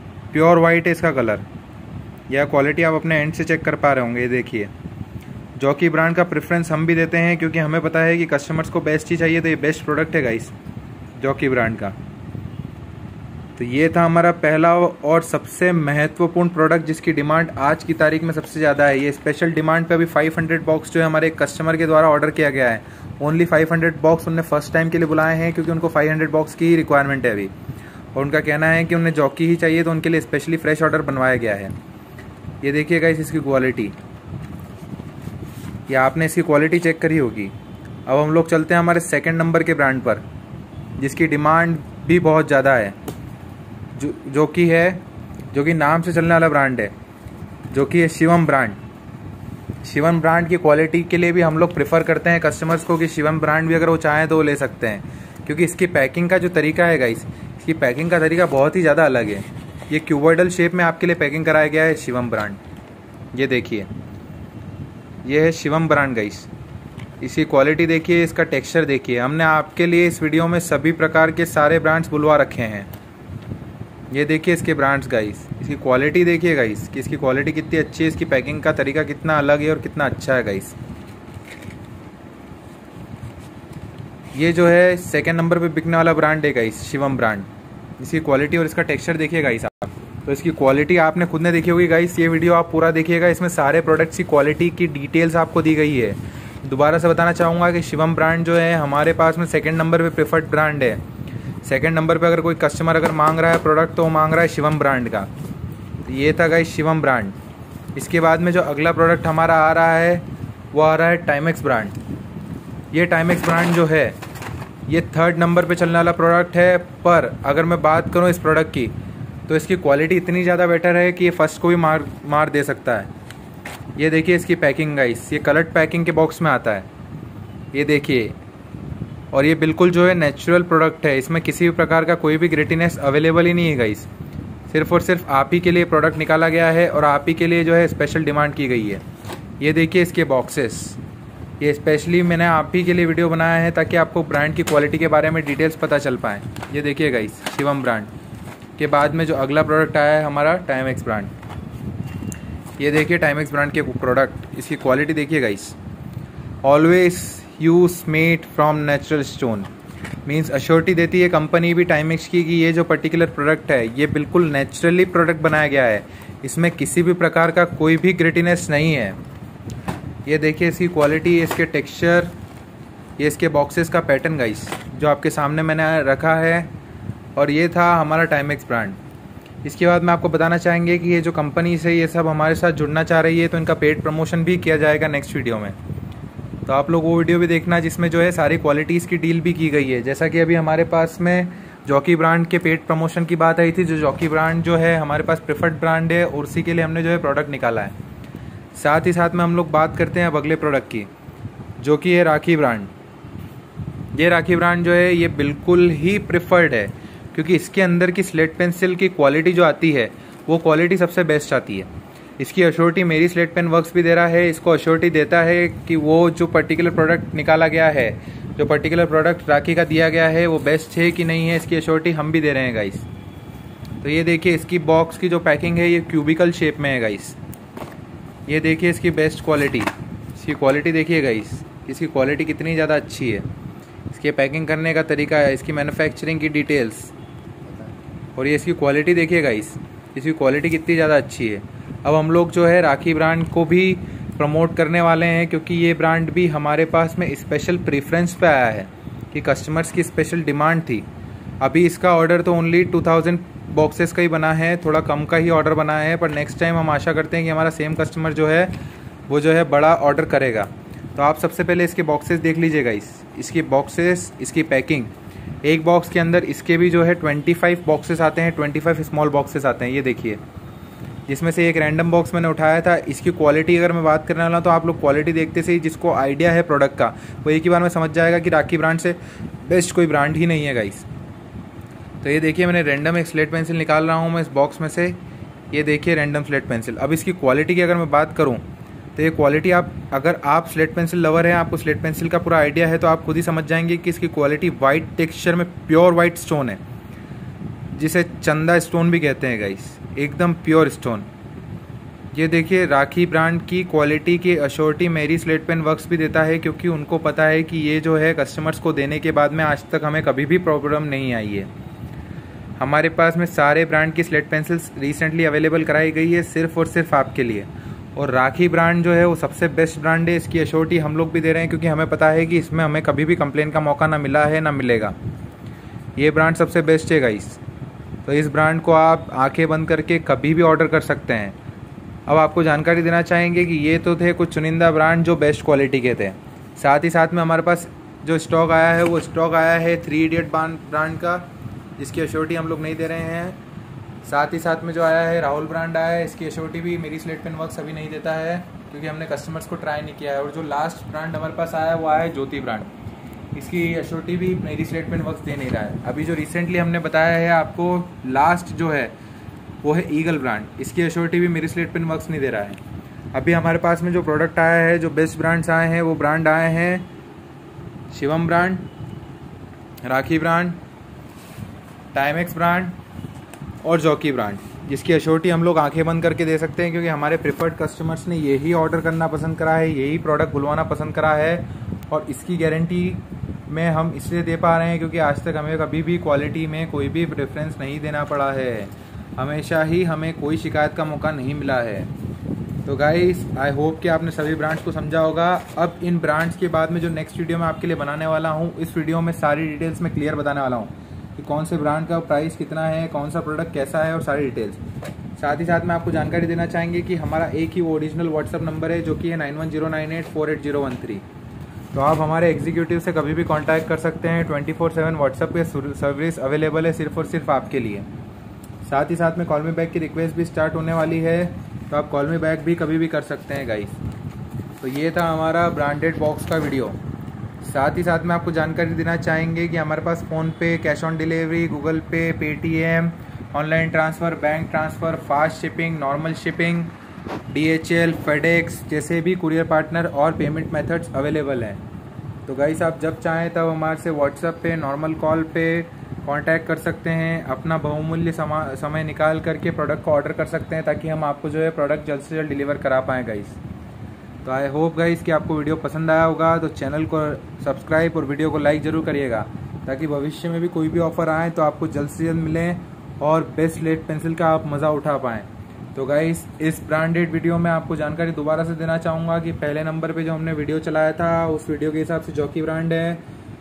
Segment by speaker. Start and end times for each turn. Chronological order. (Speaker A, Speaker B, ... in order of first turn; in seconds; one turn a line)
Speaker A: 0.3-1.4
Speaker A: 2.3-4.7
Speaker A: 5.5-10.5
Speaker A: 11.2-11.9
Speaker A: 13.6-27.5
Speaker A: 28.1-31.7
Speaker A: 32.6-34.0
Speaker A: 35.9-37.5
Speaker A: 38.0-40.2
Speaker A: 41.0-43.0
Speaker A: 43.9-46.9
Speaker A: 47.7-48.8
Speaker A: 49.8-62.6
Speaker A: 63.3-63.9
Speaker A: 65.2-66.5
Speaker A: 67.2-72.9
Speaker A: 74.1-80.8
Speaker A: 84.3-87.5
Speaker A: 88.0-101.0
Speaker A: 101.6-105.3
Speaker A: 106.0-107.3
Speaker A: 107.9-111.9
Speaker A: 112.9-114.2
Speaker A: 114.9-118.9
Speaker A: 119.5-123.1
Speaker A: 124.0-126.9
Speaker A: 127.7-128.3
Speaker A: 129.3-134.1
Speaker A: 134.7-139.0
Speaker A: 139.6-141.0
Speaker A: 141.6-148.1
Speaker A: 148.8-151.3
Speaker A: 152.8-155.8
Speaker A: 156.6-159.7
Speaker A: 160.2-169.2
Speaker A: 170.2-172.3
Speaker A: 173.2-176.7
Speaker A: 177.3-179.0
Speaker A: 179.6-185.8
Speaker A: 186.7-197.9
Speaker A: 198.7-201.1
Speaker A: 201.8-202.9
Speaker A: 204.1-223.1
Speaker A: 224.0-227.4
Speaker A: 228.5-233.5
Speaker A: 234.1-237.1
Speaker A: 237.7-251.1
Speaker A: 251.6-265.1
Speaker A: 265.6-270.4
Speaker A: 271.3-281.1
Speaker A: 282.2-285.2
Speaker A: 285.7-288.6
Speaker A: 289.1-296.8
Speaker A: 297.9-301.3
Speaker A: 302.3-311.7
Speaker A: 312.8-325.1
Speaker A: 326.1-327.6
Speaker A: 328.2-331.6
Speaker A: 332.3-343.6
Speaker A: 344.2-352.9
Speaker A: 353.5-359.1
Speaker A: 359.8-362.8
Speaker A: 363.3-367.1
Speaker A: 368.1-368.9
Speaker A: 370.0-370.8
Speaker A: 372.1-373.0
Speaker A: 373.8-392.1
Speaker A: 392.8-404.8
Speaker A: 405.4-411.2
Speaker A: 411.9-418.1
Speaker A: 418.8-424.0
Speaker A: 424.8-427.0
Speaker A: 427.6-436.9
Speaker A: 437.5-441.8
Speaker A: 442.4-453.6
Speaker A: 454.4-473.2